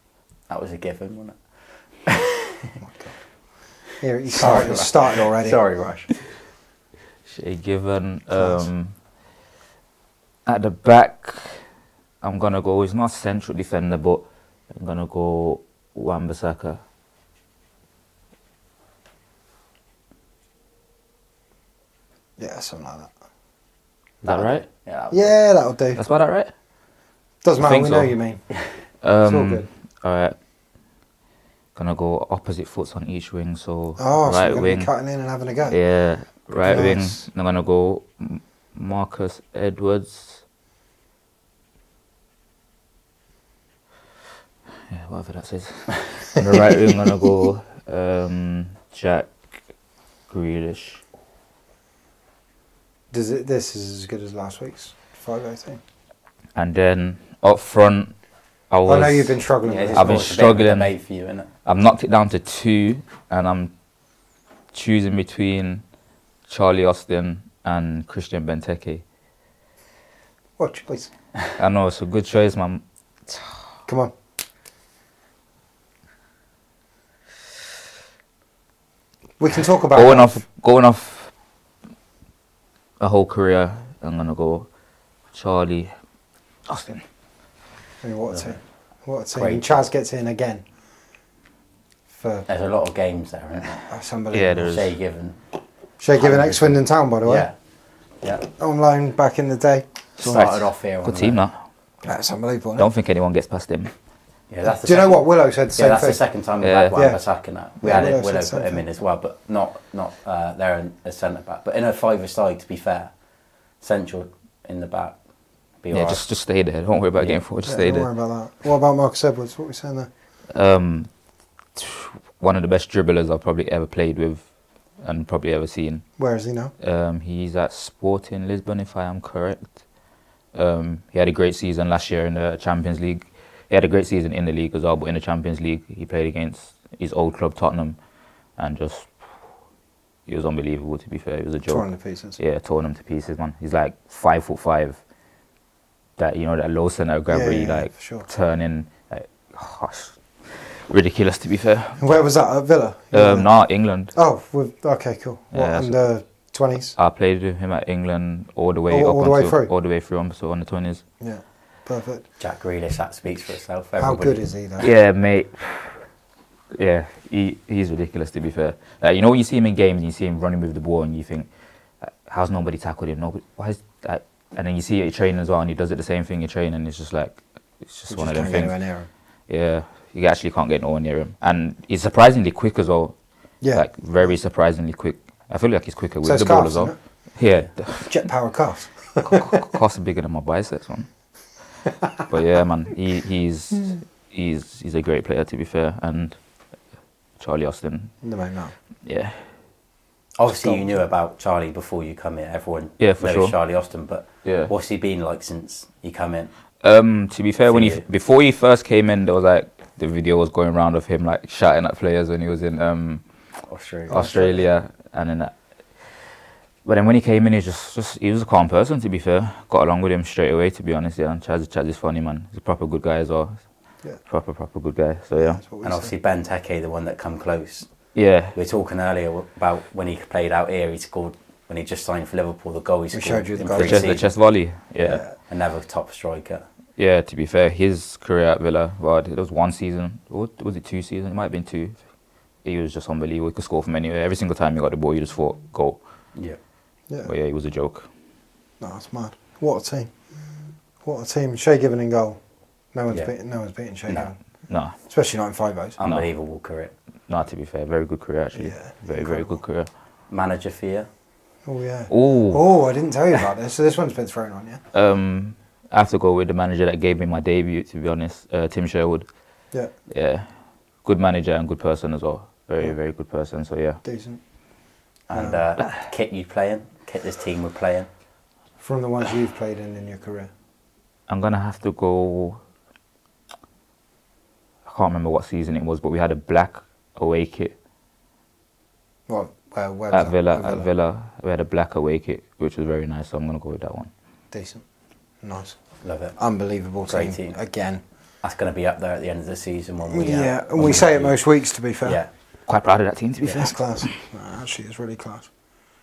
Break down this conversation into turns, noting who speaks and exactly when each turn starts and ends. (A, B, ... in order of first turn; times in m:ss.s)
0:00.5-0:01.4 A
0:02.1-0:02.4 A
0:02.8-0:03.1 B
0:04.0-0:05.6 B
0:04.4-0:06.1 A
0:07.3-0:09.0 C
0:08.4-0:08.7 B
0:10.5-0:11.7 C
0:12.2-0:16.8 C
0:22.4-0:23.1 B
0:24.2-0:25.4 A
0:24.2-0:24.6 C
0:25.1-0:26.0 B
0:26.0-0:26.5 C
0:27.4-0:28.5 B
0:27.6-0:28.2 C
0:29.0-0:30.4 C
0:29.2-0:29.7 B
0:31.8-0:34.9 C
0:34.0-0:35.8 B
0:35.7-0:40.4 C
0:36.6-0:37.3 B
0:44.9-0:49.4 C
0:50.3-0:51.0 C
0:53.1-0:55.8 B
0:56.6-0:58.2 C
0:58.7-1:00.9 C
0:58.8-1:00.4 B
0:59.6-1:01.5 A
1:01.6-1:03.7 C
1:04.7-1:05.8 C
1:06.5-1:09.0 C
1:10.6-1:11.1 B
1:11.6-1:13.6 C
1:13.9-1:14.1 B
1:19.4-1:20.4 B
1:19.9-1:21.3 C
1:23.0-1:24.7 C
1:25.3-1:26.0 C
1:26.7-1:27.0 C
1:28.0-1:30.6 B
1:29.4-1:29.9 A
1:32.1-1:32.5 B
1:32.5-1:33.8 A
1:33.9-1:34.7 B
1:34.3-1:34.9 C
1:34.6-1:35.4 A
1:36.0-1:37.5 B
1:36.1-1:37.5 A
1:38.5-1:39.9 B
1:40.2-1:41.6 C
1:40.2-1:41.4 A
1:42.0-1:42.9 B
1:42.8-1:43.9 C
1:44.5-1:53.1 A
1:44.6-1:46.2 B
1:46.6-1:46.9 C
1:47.0-1:47.2 B
1:47.8-1:48.9 B
1:53.8-1:55.2 A
1:55.8-1:56.2 A
1:55.9-1:58.1 C
1:57.2-1:57.4 A
1:57.6-2:00.1 B
2:00.5-2:01.1 C
2:01.8-2:04.5 C
2:05.0-2:06.1 C
2:06.2-2:06.7 B
2:06.8-2:09.8 C
2:10.5-2:18.0 C
2:18.6-2:19.3 C
2:20.3-2:25.0 C
2:21.7-2:22.4 B
2:26.2-2:32.2 C
2:27.3-2:28.3 B
2:32.0-2:33.5 B
2:33.1-2:34.1 C
2:34.1-2:37.0 B
2:35.5-2:36.0 C
2:37.0-2:41.0 C
2:38.9-2:39.7 B
2:41.2-2:42.3 B
2:42.4-2:44.4 A
2:44.0-2:44.9 B
2:44.8-2:46.0 C
2:46.8-2:51.5 C
2:52.0-2:58.8 C
2:58.1-2:59.1 B
2:59.5-3:03.2 C
3:03.6-3:03.9 B
3:03.7-3:08.3 C
3:06.2-3:07.0 B
3:08.0-3:09.7 B
3:09.2-3:11.1 C
3:12.3-3:16.4 C
3:17.4-3:18.2 C
3:18.2-3:18.8 B
3:19.0-3:19.5 C
3:20.4-3:26.5 A
3:20.5-3:20.8 B
3:23.0-3:23.6 C
3:24.4-3:24.7 C
3:26.8-3:33.2 C
3:27.7-3:28.0 A
3:33.7-3:34.2 A
3:34.1-3:34.7 B
3:34.1-3:36.2 C
3:36.8-3:43.6 C
3:44.2-3:45.6 C
3:45.4-3:46.1 B
3:45.8-3:47.9 A
3:48.1-3:48.6 C
3:48.5-3:54.3 A
3:53.1-3:54.2 B
3:53.8-3:55.2 C
3:55.0-3:56.6 A
3:57.0-4:02.0 C
4:02.6-4:06.0 C
4:07.2-4:08.1 C
4:08.8-4:10.1 B
4:11.0-4:12.4 B
4:12.9-4:14.4 B
4:14.7-4:15.0 C
4:14.9-4:16.0 B
4:16.0-4:16.9 A
4:17.3-4:19.9 C
4:18.6-4:19.6 B
4:20.3-4:21.1 A
4:21.6-4:24.8 B
4:22.1-4:22.6 C
4:24.9-4:29.3 C
4:30.1-4:30.5 C
4:31.0-4:34.0 C
4:34.0-4:34.4 B
4:35.3-4:38.1 A
4:35.3-4:35.6 B
4:38.8-4:40.5 B
4:41.3-4:42.6 C
4:44.8-4:47.8 C
4:49.3-4:50.9 B
4:50.1-4:54.1 C
4:54.5-4:54.8 B
4:55.4-4:58.0 B
4:56.0-4:56.4 A
4:57.1-4:57.6 A
4:58.4-5:01.4 A
5:00.1-5:02.2 B
5:02.0-5:02.3 A
5:02.7-5:04.1 C
5:03.5-5:05.5 B